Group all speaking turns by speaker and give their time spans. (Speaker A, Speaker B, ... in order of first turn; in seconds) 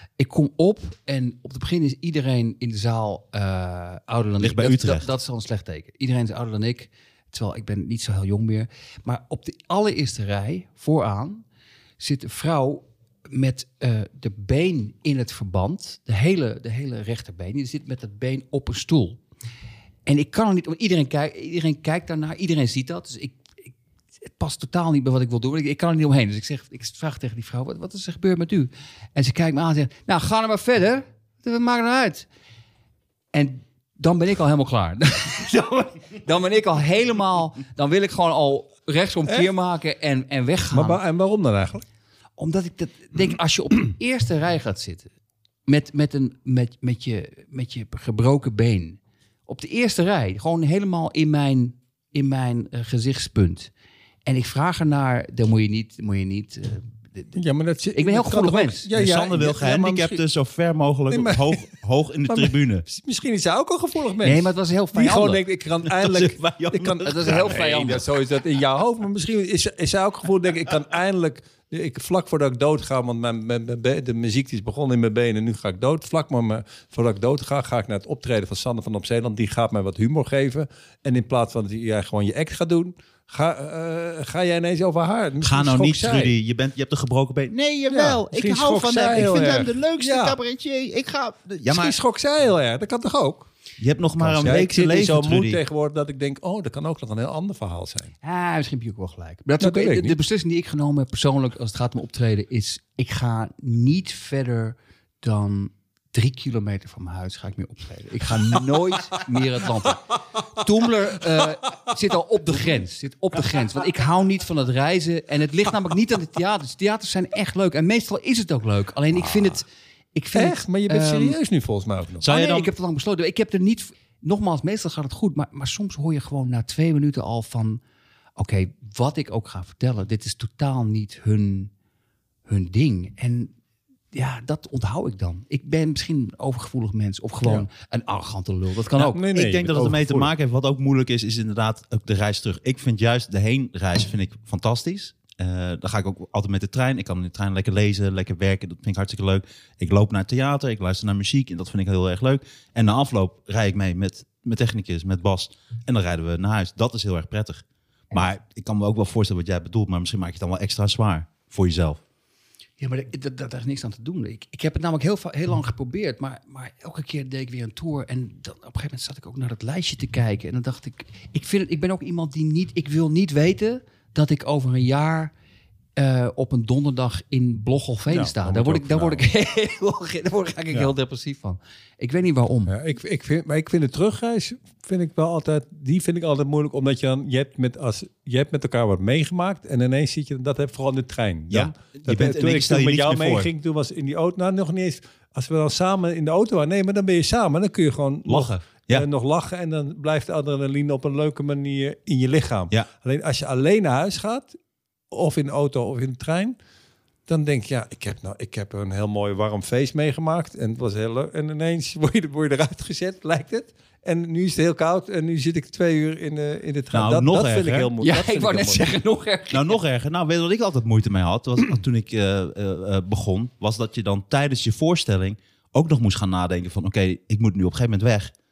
Speaker A: 0.2-11.4, 12.0-19.2, 20.1-23.7, 24.2-32.3, 33.3-41.0, 42.4-45.1, 45.7-53.7, 54.2-57.3, 57.9-58.9, 64.2-65.4, 67.0-68.0, 98.2-121.4, 122.2-127.8, 128.4-131.7, 132.4-133.5, 134.1-139.2, 162.8-175.3, 176.0-182.7, 218.0-219.7
Speaker B: 4.4-5.1, 58.9-62.9, 65.8-67.6, 85.4-92.0, 93.8-95.6, 122.2-122.7, 139.1-162.0, 191.5-193.5, 198.2-199.1, 216.9-217.9, 219.5-228.3
Speaker C: 40.7-41.8, 57.3-60.2, 61.1-61.7, 62.3-86.3, 87.9-90.4, 91.7-93.5, 94.2-98.1, 99.6-100.2, 120.3-122.2, 139.0-140.3, 178.1-179.2, 182.7-204.6, 205.1-206.5, 207.3-218.9